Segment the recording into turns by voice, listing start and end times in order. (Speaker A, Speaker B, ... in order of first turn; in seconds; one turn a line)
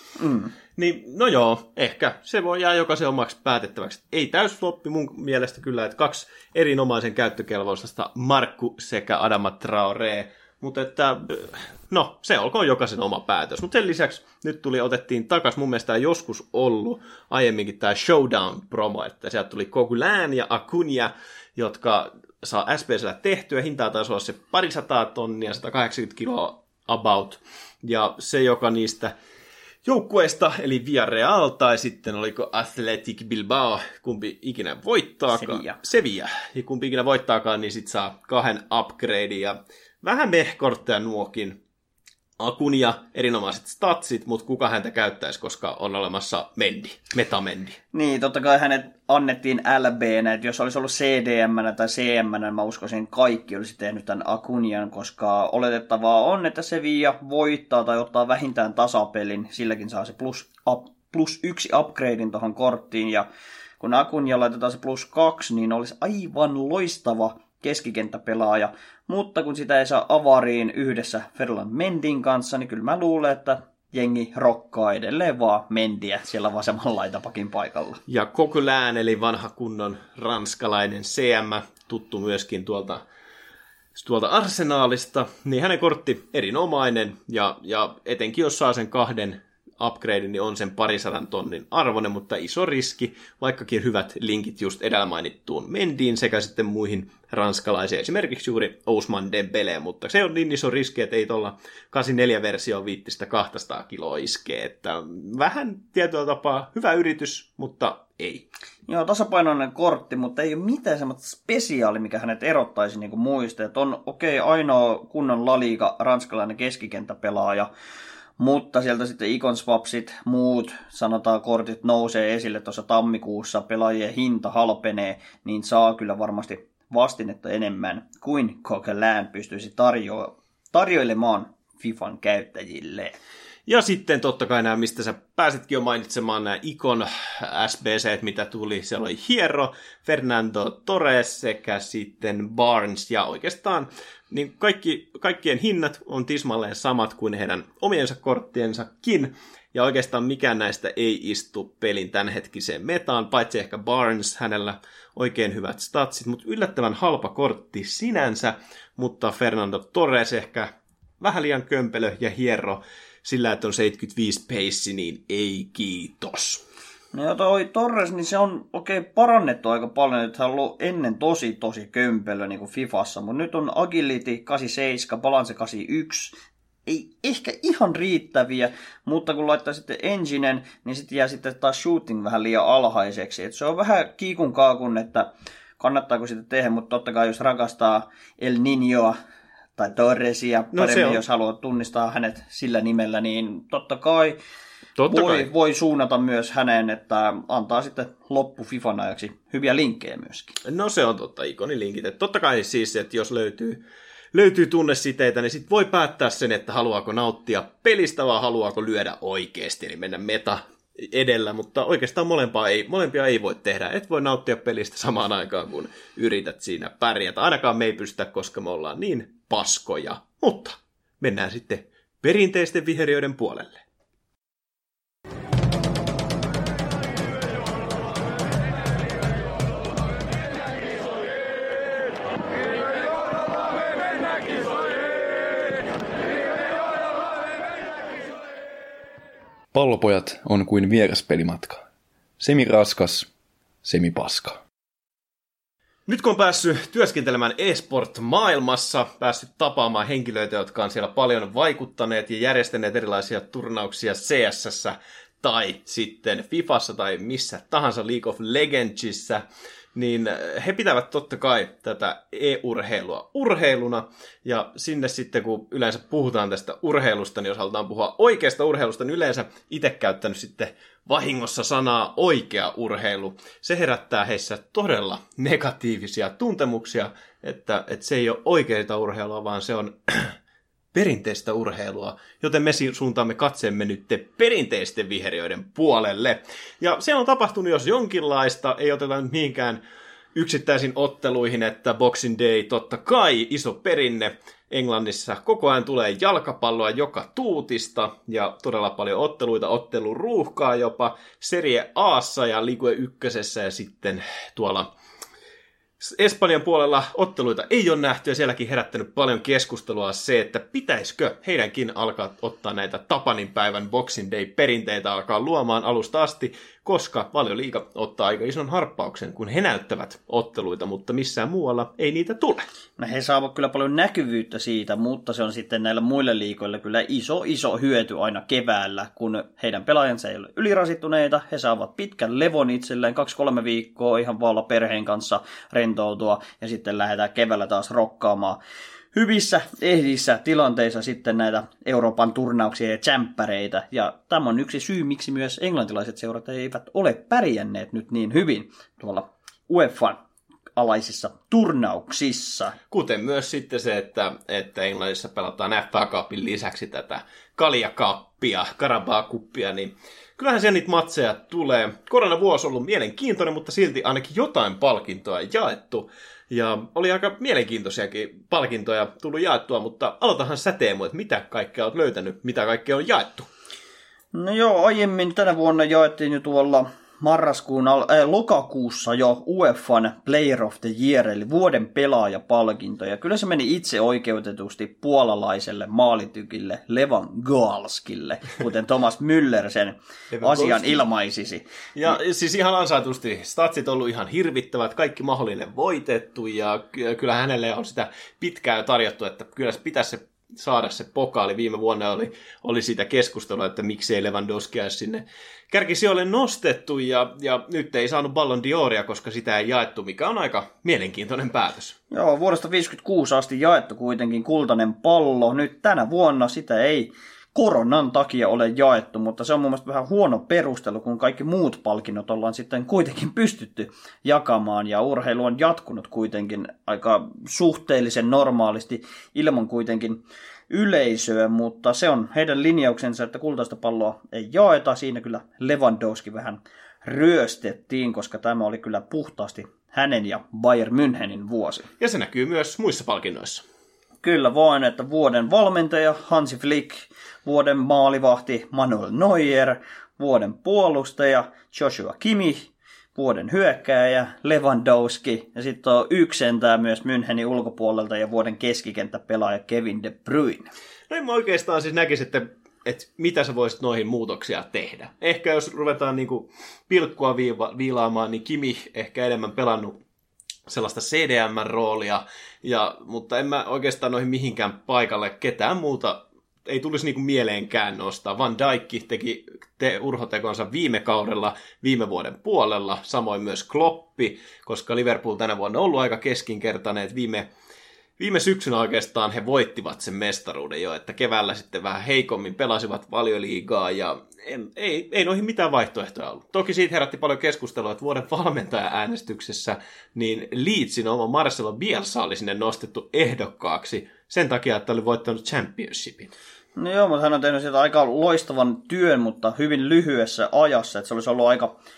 Speaker A: 0.2-0.5
Speaker B: 0.8-29.1
Speaker B: 29.9-41.6
Speaker A: 35.4-35.8
Speaker B: 42.4-47.8
Speaker A: 47.9-63.3
Speaker A: 63.8-78.0
Speaker B: 78.1-83.0
Speaker B: 84.0-108.5
Speaker A: 108.9-117.7
Speaker A: 118.4-133.2
Speaker B: 133.7-166.6
Speaker A: 167.1-185.3
Speaker A: 185.8-189.2
Speaker A: 189.8-194.4
Speaker B: 190.7-191.2
Speaker B: 195.0-195.5
Speaker A: 195.1-200.6
Speaker B: 200.6-203.8
Speaker B: 204.3-223.8
Speaker C: 239.7-241.8
Speaker C: 242.4-243.3
Speaker C: 243.8-244.6
Speaker B: 246.1-259.4
Speaker B: 259.9-280.4
Speaker B: 280.9-289.8
Speaker B: 290.4-304.9
Speaker B: 306.0-322.7
Speaker A: 323.0-338.6
Speaker A: 339.1-350.2
Speaker A: 350.8-352.8
Speaker B: 352.9-373.5
Speaker A: 374.3-391.6
Speaker B: 390.3-391.0
Speaker B: 392.0-412.0
Speaker A: 412.1-441.9
Speaker B: 442.0-443.6
Speaker A: 444.2-460.7
Speaker B: 461.1-470.0
Speaker B: 470.7-487.5
Speaker B: 488.2-506.3
Speaker A: 506.8-511.8